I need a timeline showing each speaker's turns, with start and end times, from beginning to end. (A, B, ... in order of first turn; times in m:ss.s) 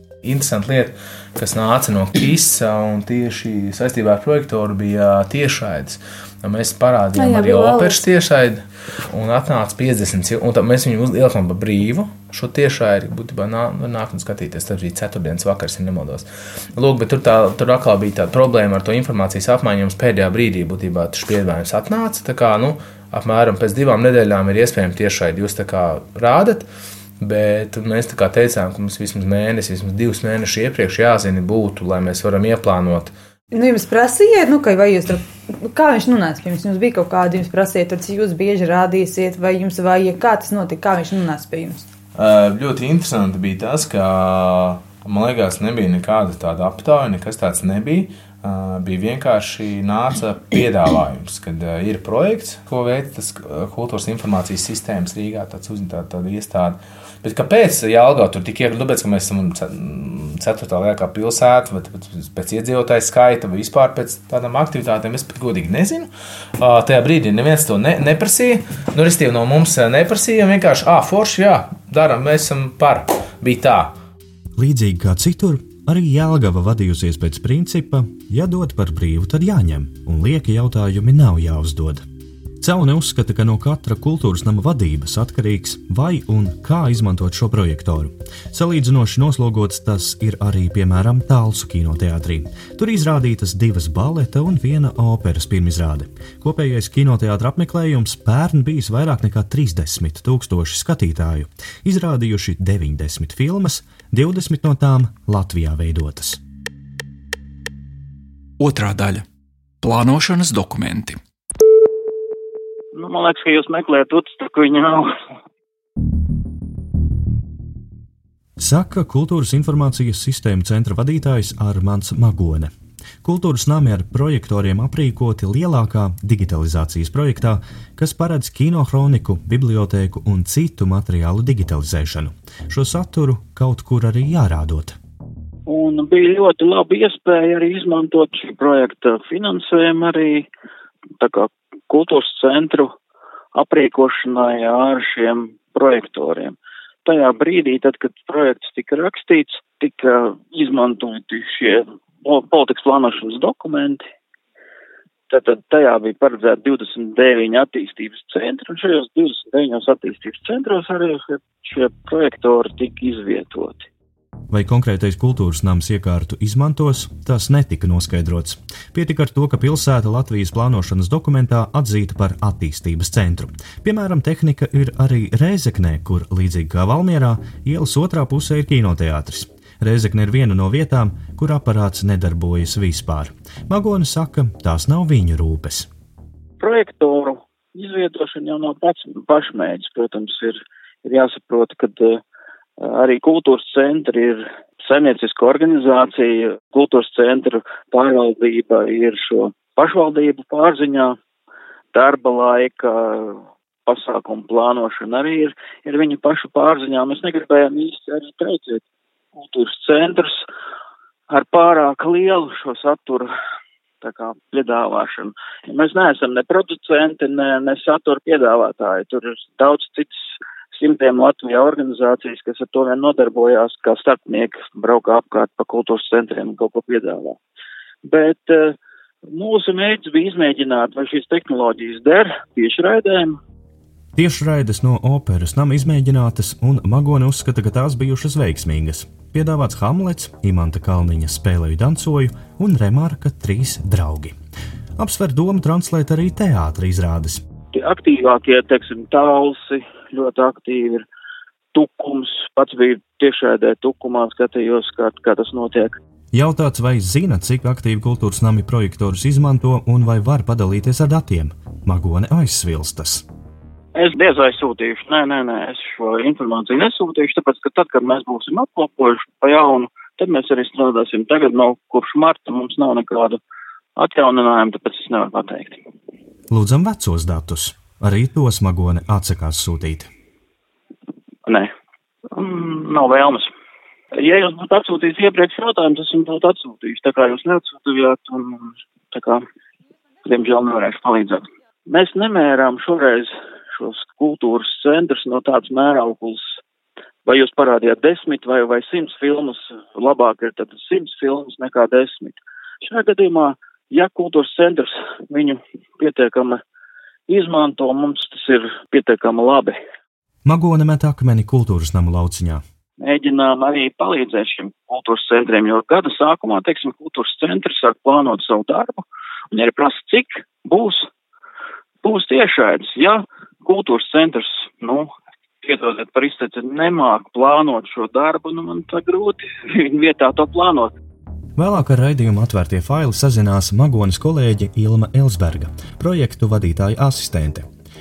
0:00.2-0:26.7 A
0:07.2-0:08.0 B
0:27.2-0:33.1 A
0:33.5-0:41.9 B
0:42.1-1:13.9 A
1:14.6-1:22.0 C
1:22.6-1:46.4 C
1:48.6-1:49.2 D
1:49.8-1:51.2 D
1:52.9-1:55.1 E
1:58.6-2:02.7 C
2:03.2-2:15.0 C
2:15.7-2:20.5 E
2:21.2-2:22.9 E
2:23.5-2:34.0 E
2:35.3-2:43.9 E
2:44.5-3:05.9 C
3:06.6-3:12.2 E
3:12.8-3:21.2 E
3:21.9-3:28.8 E
3:29.3-3:30.4 E
3:31.3-3:33.3 E
3:34.0-3:47.4 E
3:48.0-3:48.8 E
3:49.3-3:53.4 E
3:54.2-4:04.3 C
4:05.0-4:07.4 C
4:07.7-4:11.0 E
4:11.7-4:16.0 E
4:16.3-4:23.2 C
4:23.9-4:33.4 E
4:34.0-4:35.8 E
4:36.5-4:40.1 C
4:41.4-4:41.7 E
4:42.3-4:43.5 E
4:44.1-4:49.4 E
4:50.2-4:56.6 E
4:57.2-5:06.6 E
5:07.3-5:09.8 E
5:10.4-5:12.6 C
5:13.0-5:21.1 E
5:22.0-5:25.1 E
5:25.6-5:30.9 E
5:31.6-5:37.6 C